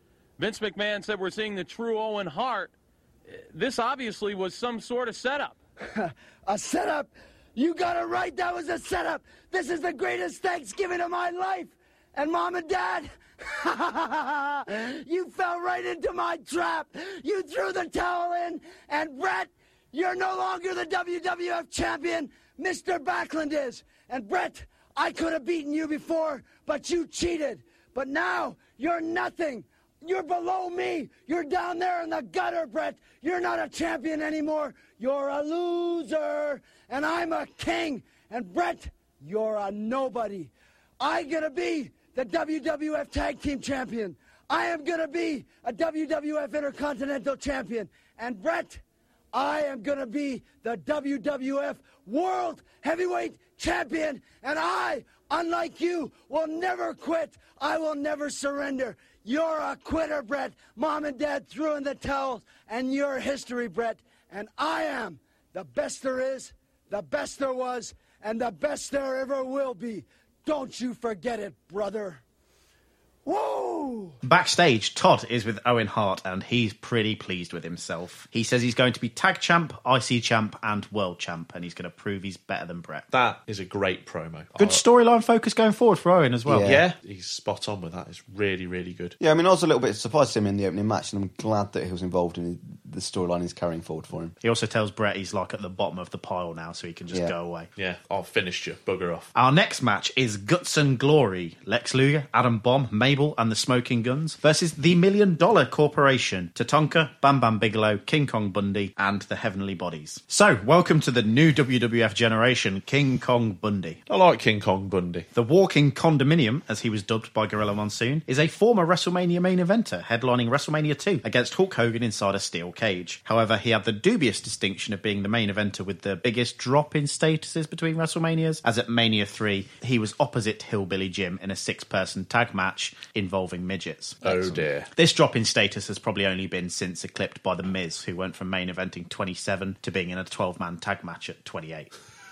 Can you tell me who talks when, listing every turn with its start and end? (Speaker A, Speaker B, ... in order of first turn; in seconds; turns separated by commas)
Speaker A: 0.4-2.7, Speaker A: 3.4-5.5, Speaker B: 5.9-48.8, Speaker B: 49.3-72.2, Speaker B: 73.2-74.2, Speaker C: 74.2-83.0, Speaker D: 83.1-84.8, Speaker C: 84.5-86.8, Speaker E: 86.5-86.8, Speaker D: 86.6-89.2, Speaker E: 89.2-94.3, Speaker C: 94.4-97.7, Speaker D: 97.8-99.3, Speaker C: 99.3-114.0, Speaker D: 114.1-115.3, Speaker C: 115.3-141.9, Speaker D: 134.2-134.9